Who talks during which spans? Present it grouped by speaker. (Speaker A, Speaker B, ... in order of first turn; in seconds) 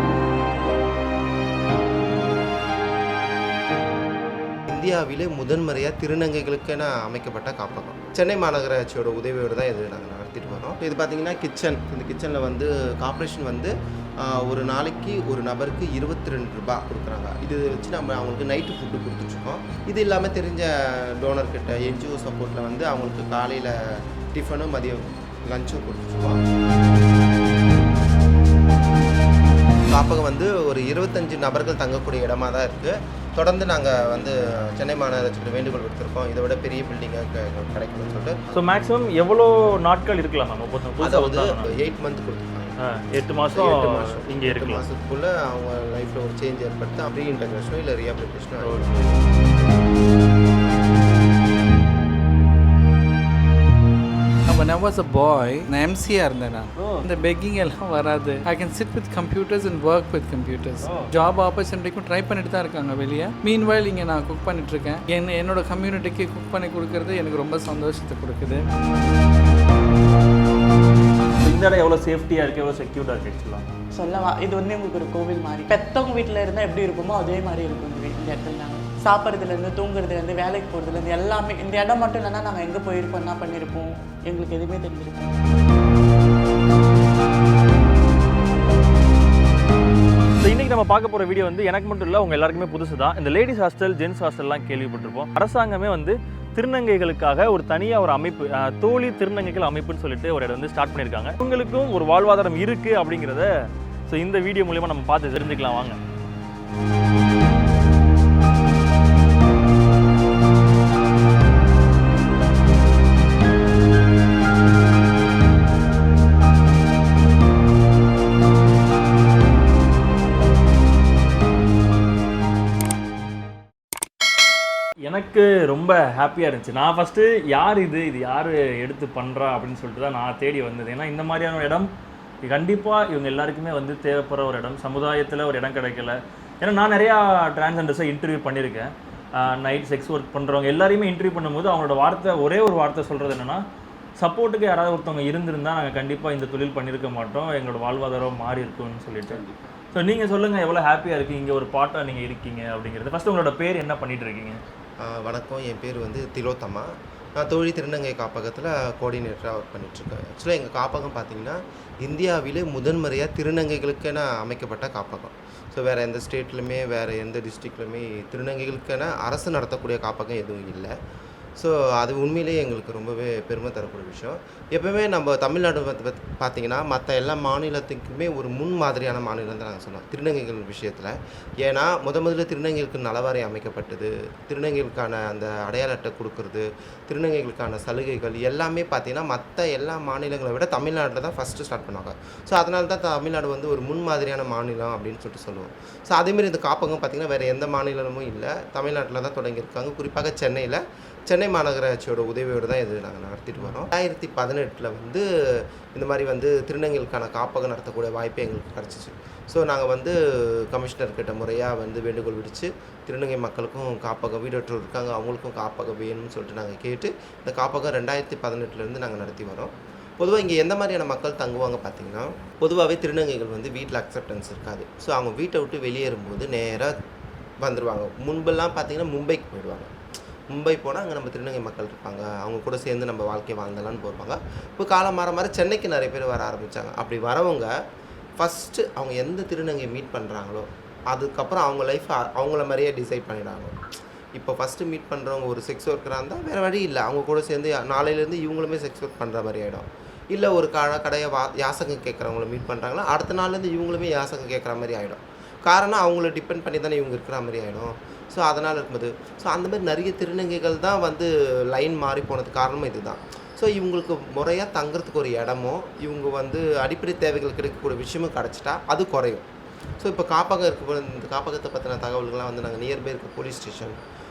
Speaker A: 4.7-13.7, 14.2-23.7, 24.3-26.4, 29.9-38.4, 41.0-42.7, 43.5-49.1, 155.0-156.9, 157.4-170.9, 171.6-205.2, 205.9-210.1, 210.7-226.9, 227.6-229.9, 230.5-237.7, 238.4-243.7, 244.3-269.4, 270.0-273.9
Speaker B: 38.5-41.8, 42.8-44.8, 48.6-49.1, 56.8-57.0, 60.8-61.1, 71.4-73.7, 90.4-103.5, 104.1-106.0, 125.0-131.9, 132.4-143.6, 144.2-149.4, 149.9-154.6, 203.6-203.8
Speaker C: 54.5-68.6
Speaker D: 73.9-85.4